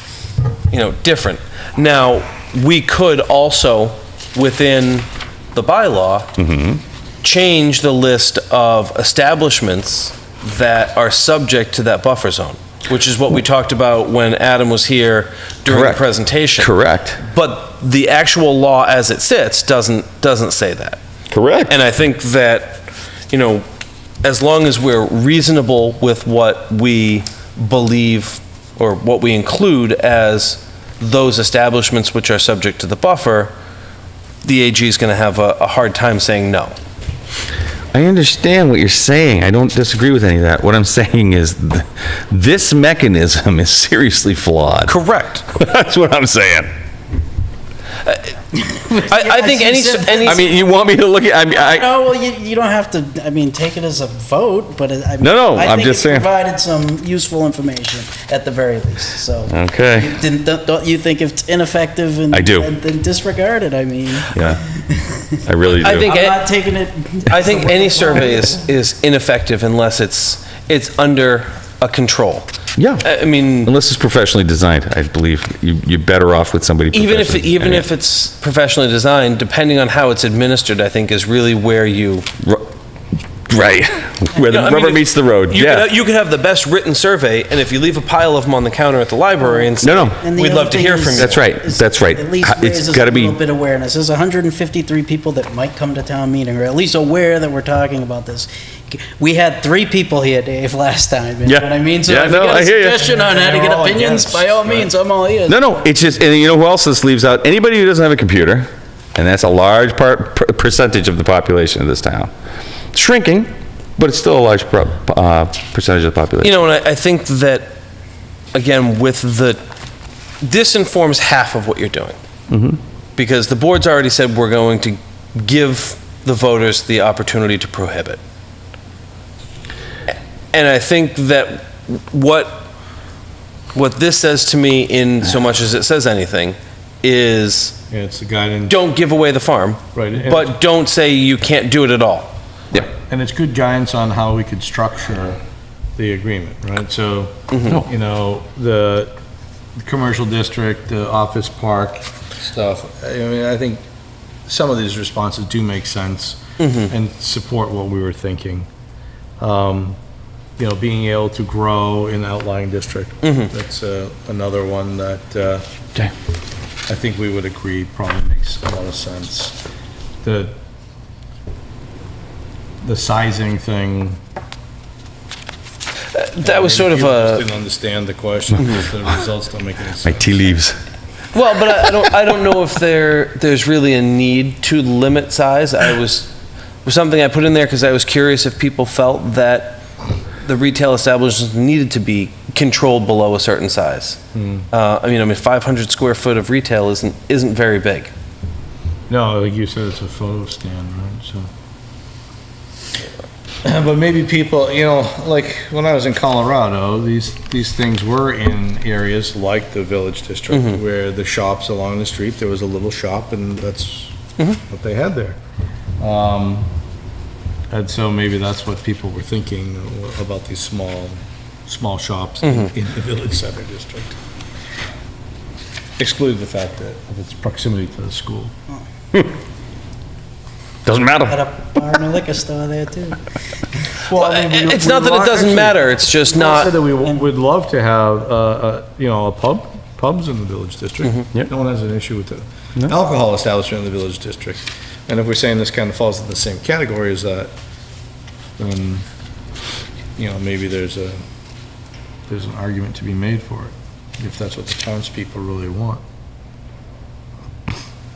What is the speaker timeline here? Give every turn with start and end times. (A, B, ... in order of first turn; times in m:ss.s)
0:00.7-0:06.3 A
0:06.4-0:06.8 B
0:07.2-0:21.0 A
0:15.7-0:16.0 B
0:16.6-0:17.2 B
0:21.3-0:21.7 B
0:21.7-0:23.6 A
0:24.2-0:33.5 A
0:34.4-0:36.7 A
0:37.9-0:44.9 B
0:44.8-0:45.4 A
0:45.5-0:46.7 B
0:48.5-0:50.6 C
0:49.0-0:50.4 A
0:50.2-0:51.9 B
0:51.5-1:05.4 C
0:55.2-0:56.3 B
0:59.5-1:00.2 B
1:02.3-1:02.7 B
1:04.3-1:04.6 B
1:05.4-1:06.1 B
1:05.8-1:06.5 A
1:06.0-1:08.6 C
1:07.3-1:12.5 A
1:12.8-1:17.9 B
1:13.0-1:13.7 A
1:16.9-1:22.3 A
1:22.4-1:22.7 B
1:23.5-1:25.9 B
1:24.4-1:31.4 A
1:29.8-1:30.2 B
1:30.2-1:45.6 C
1:31.2-1:33.4 B
1:41.4-1:43.1 B
1:43.0-1:44.9 D
1:45.5-1:52.3 B
1:52.9-1:56.6 B
1:56.4-1:57.8 A
1:58.5-1:59.6 A
2:00.4-2:02.2 A
2:02.5-2:02.8 B
2:03.2-2:08.2 A
2:10.5-2:12.7 A
2:13.7-2:17.8 A
2:17.9-2:18.8 D
2:18.7-2:22.3 A
2:19.9-2:20.5 D
2:22.7-2:25.4 D
2:26.0-2:29.1 D
2:27.5-2:27.8 A
2:29.8-2:33.8 D
2:34.5-2:38.7 D
2:36.6-2:36.9 A
2:39.4-2:40.0 D
2:40.6-2:45.6 D
2:43.2-2:43.5 A
2:46.9-2:49.6 D
2:50.2-2:50.5 D
2:52.8-2:54.2 D
2:56.1-2:57.4 A
2:56.4-3:00.6 D
2:58.6-2:58.9 A
3:00.0-3:00.8 B
3:01.3-3:06.3 A
3:06.8-3:09.8 A
3:10.4-3:14.2 A
3:14.3-3:14.7 D
3:14.7-3:18.1 A
3:19.1-3:21.5 D
3:23.6-3:34.1 D
3:30.5-3:30.8 A
3:34.7-3:35.4 D
3:36.0-3:36.7 D
3:37.7-3:44.2 D
3:42.4-3:42.7 A
3:46.0-3:48.5 D
3:50.8-3:51.4 B
3:51.3-3:53.2 C
3:54.0-4:07.5 D
3:54.1-3:56.8 A
4:08.6-4:09.0 D
4:10.2-4:11.2 D
4:12.3-4:16.0 D